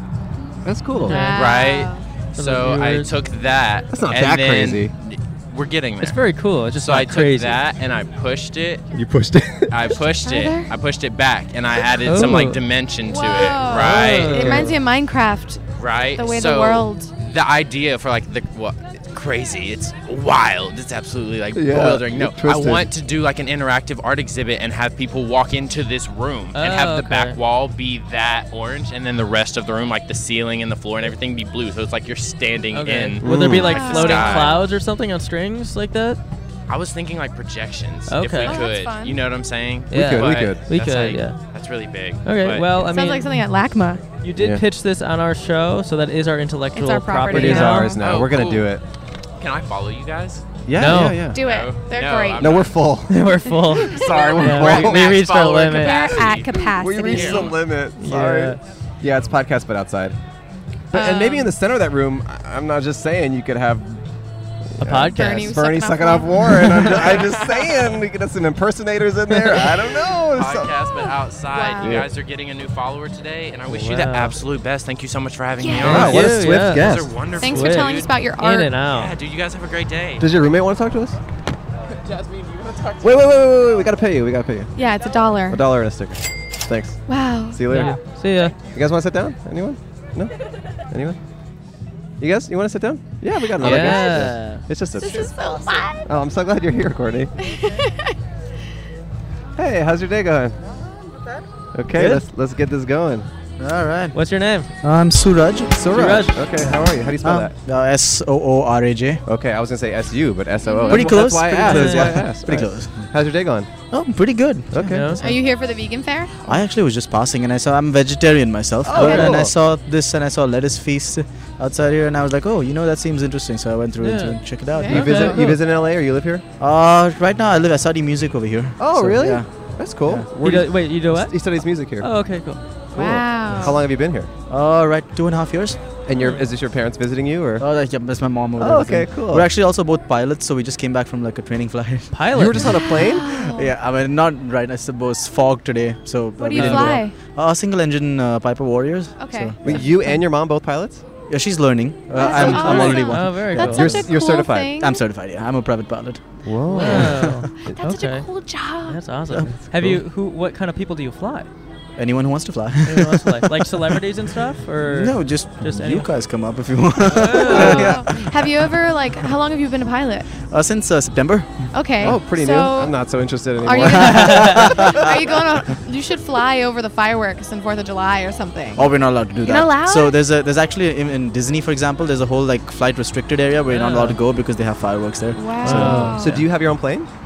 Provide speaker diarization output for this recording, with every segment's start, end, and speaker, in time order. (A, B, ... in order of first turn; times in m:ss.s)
0:00.6-0:01.2 A
0:01.0-0:01.5 B
0:01.0-0:02.0 C
0:01.2-0:06.2 D
0:02.4-0:03.1 B
0:03.9-0:04.9 A
0:06.0-0:07.6 B
0:06.8-0:08.9 D
0:08.9-0:10.0 A
0:09.7-0:14.7 D
0:10.2-0:10.7 C
0:12.0-0:12.6 B
0:13.0-0:15.6 C
0:13.7-0:14.8 B
0:15.7-0:34.6 D
0:16.1-0:17.1 C
0:21.5-0:22.9 A
0:26.5-0:27.4 B
0:32.7-0:36.2 B
0:33.2-0:33.8 A
0:33.4-0:34.7 C
0:36.7-0:42.8 D
0:38.1-0:38.6 B
0:38.4-0:39.2 C
0:39.9-0:40.6 A
0:39.9-0:41.4 B
0:42.2-0:43.2 B
0:42.7-0:44.0 C
0:44.2-0:48.0 B
0:46.7-0:47.9 C
0:47.3-0:48.8 A
0:47.9-0:48.8 D
0:49.4-0:50.4 D
0:50.6-0:51.4 A
0:50.8-0:51.3 B
0:51.3-0:52.6 C
0:51.4-0:52.8 D
0:52.4-0:53.3 A
0:53.1-0:56.1 B
0:53.8-0:57.5 D
0:54.0-0:54.4 C
0:54.0-0:55.2 A
0:55.7-0:57.5 C
0:56.7-1:00.2 A
0:58.0-0:58.6 B
1:00.9-1:04.0 A
1:00.9-1:01.5 C
1:04.8-1:10.7 A
1:04.8-1:05.6 B
1:05.1-1:07.2 C
1:07.4-1:07.6 D
1:10.3-1:18.2 D
1:11.5-1:12.0 C
1:11.8-1:12.1 A
1:13.7-1:14.4 B
1:15.6-1:16.0 C
1:15.8-1:17.2 A
1:15.8-1:16.9 B
1:17.4-1:18.7 C
1:17.4-1:19.1 B
1:18.8-1:20.2 D
1:20.2-1:21.2 A
1:23.0-1:24.7 A
1:24.8-1:25.6 C
1:25.5-1:28.0 A
1:27.1-1:27.6 C
1:27.7-1:28.5 B
1:28.7-1:30.3 A
1:30.9-1:31.2 A
1:32.2-1:35.4 A
1:33.6-1:34.6 B
1:33.7-1:34.2 C
1:35.0-1:36.1 C
1:36.0-1:37.3 A
1:37.4-1:38.1 C
1:39.6-1:40.6 A
1:41.7-1:43.3 A
1:41.9-1:42.2 E
1:43.6-1:44.2 E
1:44.1-1:44.7 B
1:44.8-1:46.2 E
1:45.7-1:47.5 A
1:45.9-1:46.4 B
1:47.2-1:49.2 E
1:49.2-1:53.7 A
1:50.6-1:51.1 C
1:50.9-1:53.1 E
1:51.6-1:52.3 B
1:53.9-1:55.4 E
1:54.7-1:55.1 A
1:54.8-1:55.2 B
1:55.1-1:56.6 C
1:56.4-2:05.5 E
1:58.8-1:59.5 A
1:59.0-1:59.3 C
1:59.0-1:59.3 B
2:04.0-2:05.5 B
2:04.7-2:05.5 C
2:04.9-2:06.4 A
2:06.6-2:09.5 E
2:08.8-2:12.1 A
2:10.0-2:10.3 E
2:10.4-2:12.6 B
2:12.9-2:14.3 A
2:12.9-2:13.8 C
2:14.5-2:16.0 E
2:16.0-2:17.7 A
2:16.2-2:16.4 B
2:17.6-2:22.1 E
2:18.6-2:19.5 A
2:22.1-2:22.7 B
2:22.3-2:23.4 A
2:22.9-2:23.7 C
2:23.3-2:29.8 E
2:26.4-2:27.1 C
2:26.5-2:26.9 B
2:29.2-2:30.2 C
2:29.6-2:31.0 A
2:31.3-2:34.1 E
2:32.1-2:35.0 C
2:32.3-2:34.1 B
2:32.3-2:34.7 A
2:34.8-2:36.2 E
2:36.4-2:37.8 A
2:36.7-2:38.3 B
2:36.7-2:37.4 E
2:37.6-2:39.0 C
2:38.8-2:41.5 B
2:39.3-2:39.9 E
2:42.0-2:44.0 E
2:42.8-2:46.1 B
2:44.8-2:48.3 E
2:47.1-2:48.0 B
2:47.4-2:50.3 C
2:50.4-2:52.2 E
2:51.7-2:53.0 C
2:52.0-2:55.1 A
2:53.6-3:00.2 C
2:53.8-2:55.1 E
2:54.0-2:54.6 B
2:58.8-3:06.3 E
3:03.7-3:04.2 B
3:05.3-3:06.4 C
3:05.6-3:06.2 B
3:06.1-3:07.1 A